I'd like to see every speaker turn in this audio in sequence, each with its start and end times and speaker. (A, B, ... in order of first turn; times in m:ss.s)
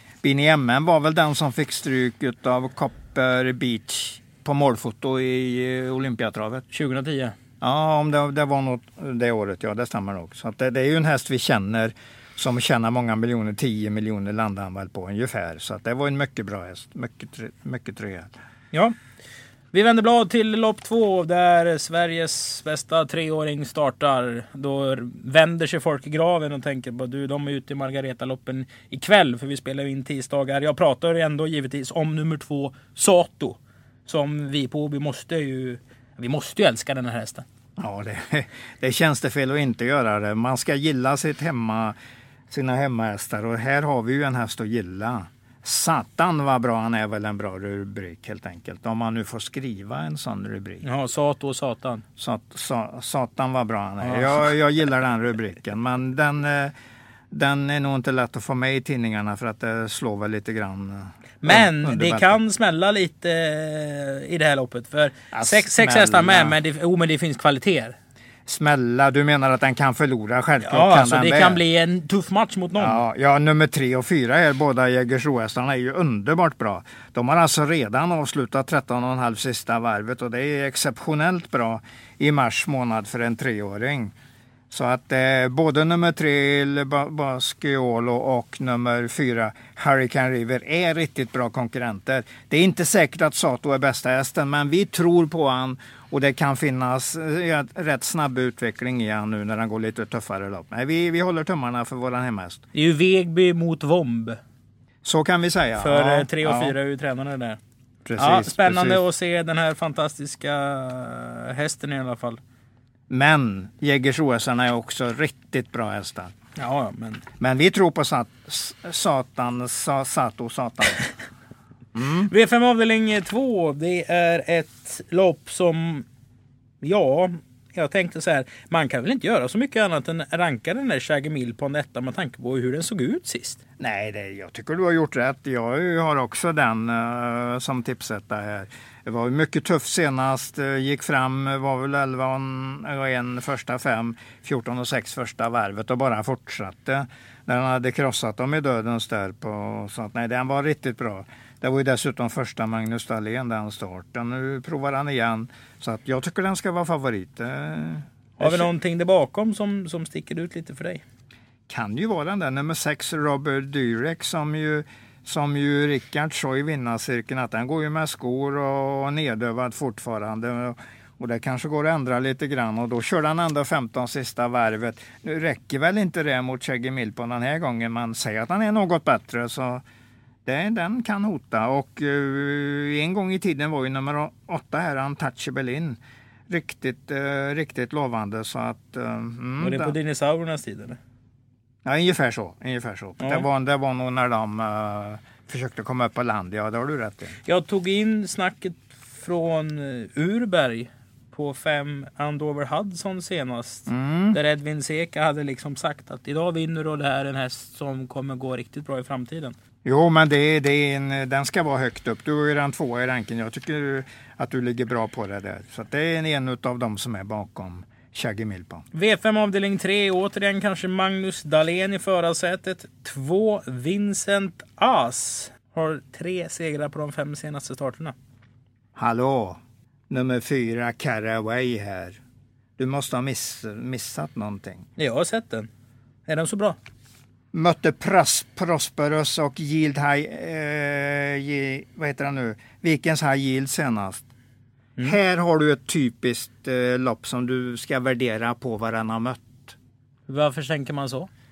0:00.2-0:06.6 A
0:06.7-0:07.4 B
0:07.6-0:18.3 A
0:19.7-0:37.4 B
0:37.8-0:41.9 A
0:42.5-0:50.8 A
0:50.8-0:52.0 B
0:52.2-0:56.7 A
0:54.0-0:54.3 B
0:57.3-1:02.4 A
1:01.4-1:08.0 B
1:05.3-1:06.6 A
1:08.4-1:11.6 A
1:10.6-1:13.0 B
1:12.8-1:24.1 A
1:24.7-1:42.6 A
1:42.7-1:44.4 B
1:45.0-1:46.8 A
1:45.8-1:47.6 B
1:48.0-1:49.0 A
1:48.2-1:52.4 B
1:53.1-1:56.3 A
1:56.6-1:57.2 B
1:57.4-2:01.1 A
2:01.9-2:02.3 A
2:02.3-2:06.1 B
2:06.8-2:13.6 B
2:13.8-2:38.7 A
2:38.4-2:41.0 B
2:41.7-2:59.8 A
3:00.4-3:10.0 A
3:09.6-3:11.0 B
3:11.8-3:17.3 A
3:13.2-3:13.4 B
3:17.4-3:29.6 B
3:23.9-3:24.4 A
3:29.8-3:38.8 A
3:38.9-3:48.2 B
3:49.0-3:49.6 A
3:50.1-3:52.2 A
3:52.8-3:54.8 A
3:55.0-3:55.7 B
3:56.3-3:56.8 B
3:57.5-4:04.2 A
4:05.0-4:09.8 A
4:10.3-4:11.3 B